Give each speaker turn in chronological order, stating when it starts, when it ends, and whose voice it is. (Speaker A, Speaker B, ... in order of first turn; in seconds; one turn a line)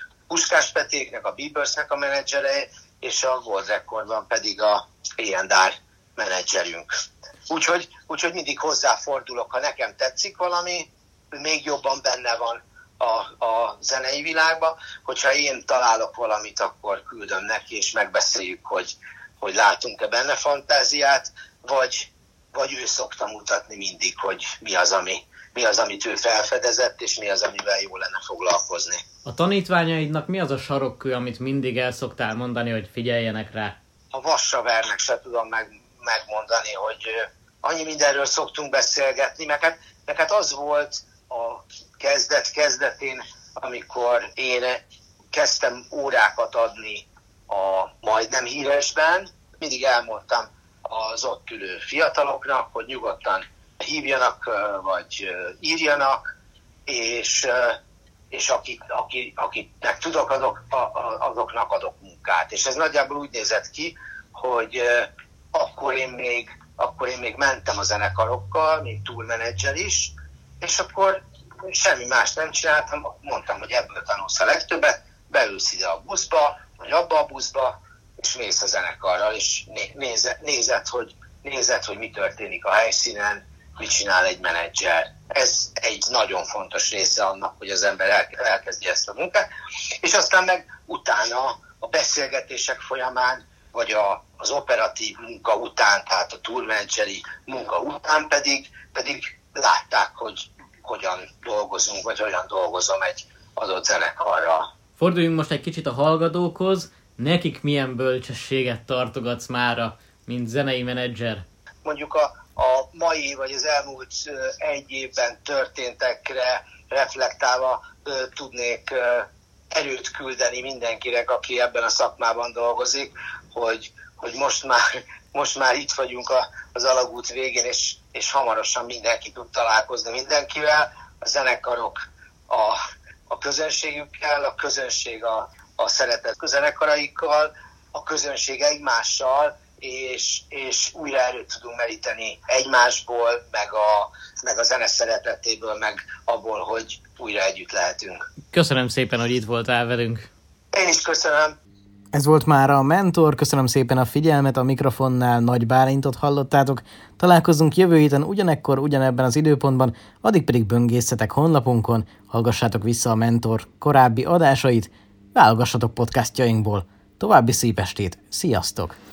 Speaker A: 0.3-6.9
Speaker A: 7.5-29.0
Speaker B: 29.3-33.8
Speaker A: 34.1-56.2
Speaker A: 56.9-57.8
Speaker A: 58.3-89.5
Speaker A: 90.0-104.7
Speaker B: 105.0-111.4
Speaker A: 111.8-148.2
Speaker B: 148.5-150.3
Speaker A: 150.7-151.6
Speaker C: 152.1-169.0